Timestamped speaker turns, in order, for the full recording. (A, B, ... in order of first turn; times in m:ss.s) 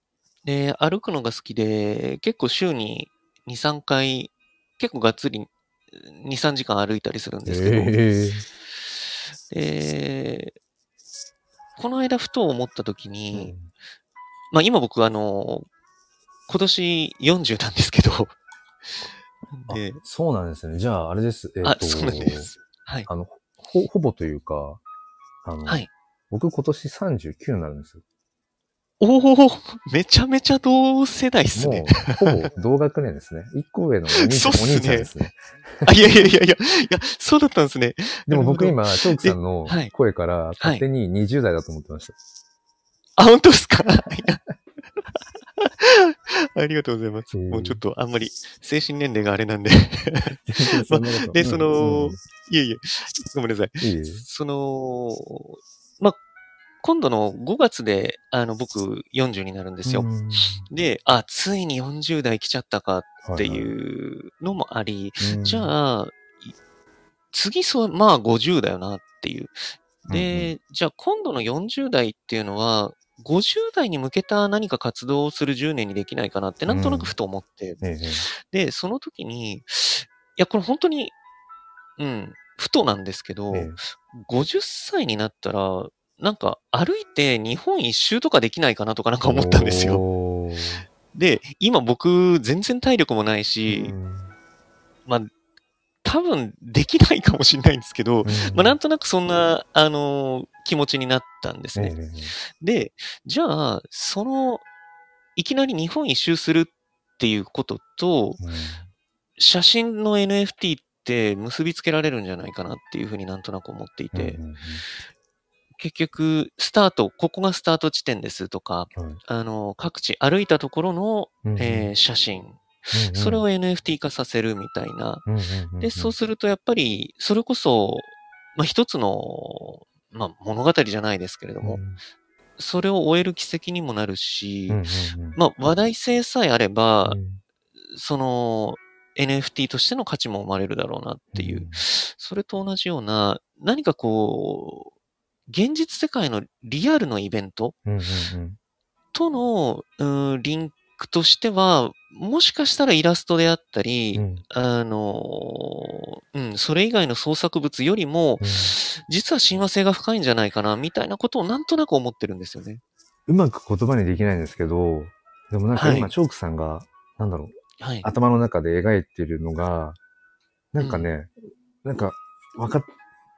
0:00.4-0:08.0 A
0:07.5-0:08.4 B
0:09.5-0:10.6 A
0:11.8-0:13.6 A
0:13.3-0:13.7 B
0:14.5-0:15.7 A
0:16.5-0:18.3 A
0:19.5-0:20.0 A
0:19.7-0:22.5 B
0:21.6-0:23.1 A
0:23.1-0:24.8 B
0:25.4-0:28.0 B
0:29.0-0:32.5 A
0:31.5-0:35.9 B
0:34.1-0:35.1 A
0:35.8-0:39.9 A
0:38.3-0:42.2 B
0:43.2-0:44.4 A
0:45.6-0:56.2 A
0:47.3-0:47.8 B
0:50.4-0:52.2 B
0:53.8-0:54.3 B
0:56.8-1:00.1 A
0:59.8-1:00.7 B
1:00.7-1:06.5 A
1:03.2-1:03.7 B
1:05.2-1:05.7 B
1:07.3-1:09.5 A
1:10.1-1:21.1 A
1:10.1-1:10.5 B
1:16.7-1:17.2 B
1:17.8-1:18.3 B
1:22.0-1:30.0 A
1:23.5-1:23.8 B
1:29.3-1:30.8 B
1:31.1-1:34.0 A
1:33.7-1:34.3 B
1:36.0-1:44.6 A
1:38.2-1:38.8 B
1:41.8-1:42.3 B
1:45.4-1:48.4 A
1:48.4-1:48.8 B
1:49.4-1:54.4 A
1:54.1-1:54.8 B
1:55.8-2:05.2 A
1:58.9-1:59.2 B
2:01.4-2:01.9 B
2:02.9-2:03.4 B
2:05.2-2:06.2 B
2:05.8-2:11.8 A
2:11.6-2:12.0 B
2:12.6-2:14.8 A
2:14.7-2:15.4 B
2:15.3-2:17.2 A
2:17.0-2:17.4 B
2:17.9-2:24.9 A
2:21.3-2:21.8 B
2:25.5-2:27.8 A
2:27.9-2:28.6 B
2:29.1-2:42.8 A
2:34.2-2:34.4 B
2:38.4-2:38.7 B
2:43.3-2:50.0 B
2:45.7-2:46.1 A
2:47.8-2:48.1 A
2:50.7-2:51.3 B
2:50.8-2:51.1 A
2:51.8-2:52.9 B